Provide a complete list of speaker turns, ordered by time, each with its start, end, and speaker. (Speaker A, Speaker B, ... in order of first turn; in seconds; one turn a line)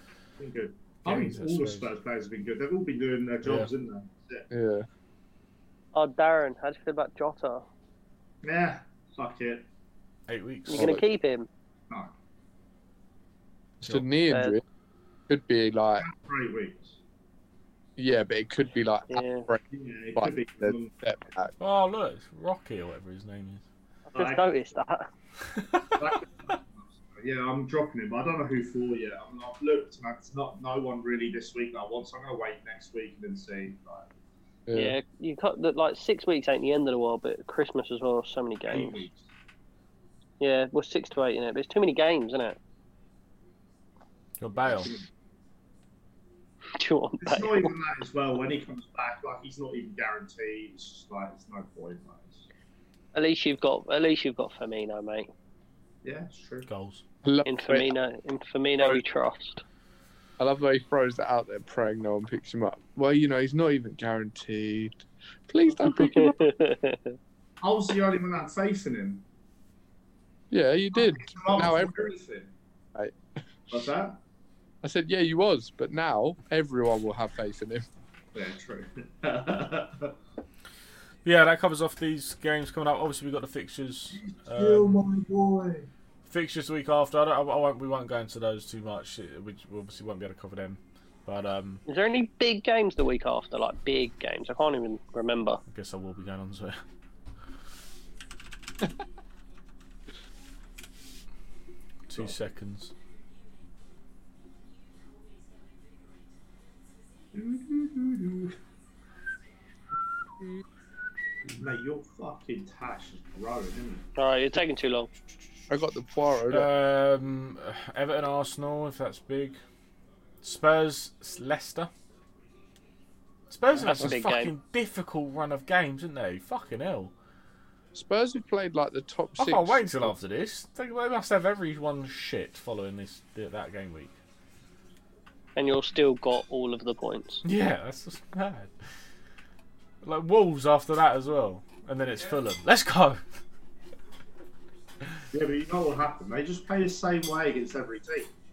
Speaker A: 0.4-4.5
Speaker B: 1.0-1.9
Speaker B: 3.4-3.7
Speaker C: 4.5-4.9
Speaker D: 5.9-7.7
Speaker A: 8.4-9.7
Speaker B: 10.3-11.0
Speaker D: 10.7-11.5
Speaker C: 10.8-11.0
Speaker C: 13.8-14.6
Speaker D: 14.3-14.6
Speaker C: 15.3-16.1
Speaker A: 16.0-17.0
Speaker C: 18.0-19.6
Speaker D: 19.1-19.5
Speaker A: 19.7-20.9
Speaker C: 20.2-21.5
Speaker B: 21.6-23.6
Speaker A: 24.1-24.5
Speaker D: 24.1-25.1
Speaker B: 25.5-26.0
Speaker A: 26.0-34.1
Speaker C: 34.7-35.0
Speaker D: 34.8-39.0
Speaker A: 38.7-39.3
Speaker D: 40.4-42.6
Speaker B: 44.4-44.9
Speaker A: 44.6-45.1
Speaker D: 46.8-47.7
Speaker A: 47.2-52.5
Speaker D: 53.1-55.3
Speaker A: 56.0-56.7
Speaker B: 56.7-57.0
Speaker C: 57.2-57.9
Speaker D: 57.5-59.6
Speaker C: 60.4-66.5
Speaker D: 65.8-67.2
Speaker A: 67.6-69.2
Speaker C: 70.5-72.1
Speaker A: 70.9-72.5
Speaker A: 73.7-74.2
Speaker C: 74.8-77.9
Speaker A: 78.3-80.2
Speaker B: 81.2-85.0
Speaker A: 84.1-85.9
Speaker B: 86.3-91.8
Speaker D: 91.9-95.6
Speaker B: 95.7-96.8
Speaker B: 102.1-102.9
Speaker A: 107.3-108.6
Speaker A: 111.5-114.1
Speaker D: 114.2-115.1
Speaker C: 115.7-116.7
Speaker B: 116.5-119.6
Speaker B: 120.4-121.9
Speaker B: 123.5-127.1
Speaker D: 123.8-124.5
Speaker C: 127.9-130.2
Speaker B: 129.4-134.2
Speaker D: 135.6-137.4
Speaker B: 137.4-138.7
Speaker B: 140.0-143.2
Speaker A: 145.3-148.3